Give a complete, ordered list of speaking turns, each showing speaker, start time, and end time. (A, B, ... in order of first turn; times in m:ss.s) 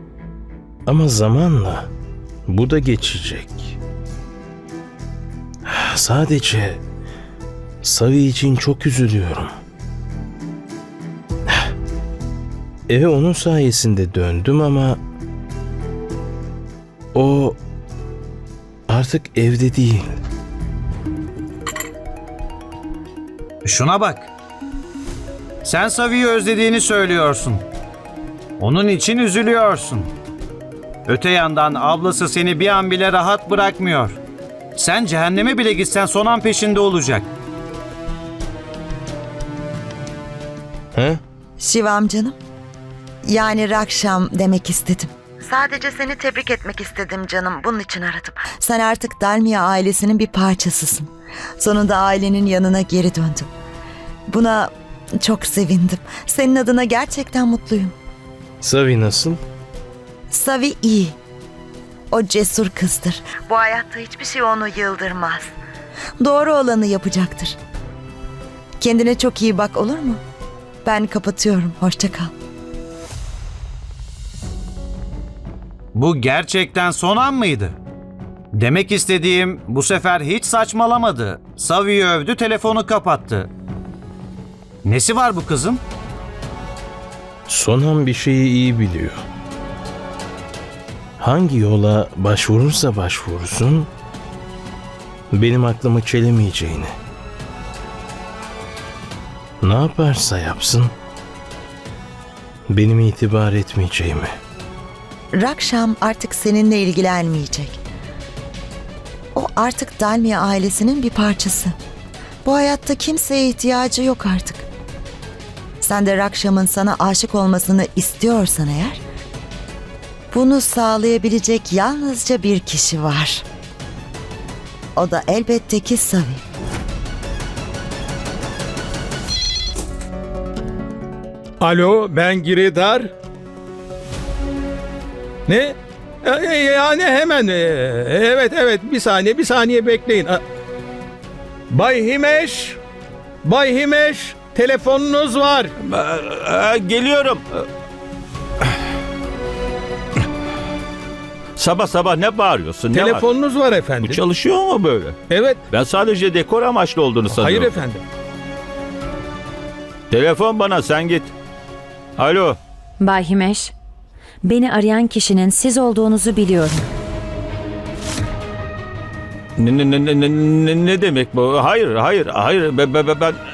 0:00.9-0:01.9 A
0:02.5-0:03.8 A
0:05.6-0:06.8 A
0:07.8-0:09.5 A
0:12.9-0:15.0 A
0:17.1-0:17.6 A
0:18.9-0:20.2 A
0:23.6-0:24.3 B
0:25.6-0:27.6 B
0:28.6-0:30.1 B
0:31.1-0:34.2 B
0:34.8-0:37.3 B
0:41.0-0:41.2 A
0:41.6-0:42.4 C
0:43.2-0:53.5 C
0:54.3-0:57.9 C
0:58.6-0:59.4 A
1:00.3-1:01.2 C
1:02.1-1:05.5 C
1:06.2-1:07.6 C
1:08.8-1:10.2 C
1:10.8-1:12.3 C
1:15.9-1:17.8 B
1:18.5-1:23.5 B
1:24.8-1:25.8 B
1:27.5-1:29.2 A
1:31.2-1:33.9 A
1:35.3-1:36.9 A
1:39.6-1:40.9 A
1:42.7-1:44.3 A
1:45.3-1:47.8 C
1:49.3-1:51.8 C
1:52.4-1:54.7 C
1:55.8-1:59.0 C
2:00.3-2:03.4 C
2:05.0-2:06.4 C
2:11.6-2:13.1 D
2:15.5-2:20.4 D
2:21.7-2:22.8 D
2:23.4-2:25.7 D
2:25.8-2:27.7 E
2:31.6-2:33.3 E
2:32.9-2:34.2 D
2:34.0-2:35.2 E
2:35.3-2:35.6 D
2:35.7-2:37.8 E
2:37.3-2:38.0 D
2:40.1-2:41.3 E
2:42.2-2:42.6 E
2:43.0-2:43.7 F
2:44.4-2:46.9 F
2:49.6-2:53.4 E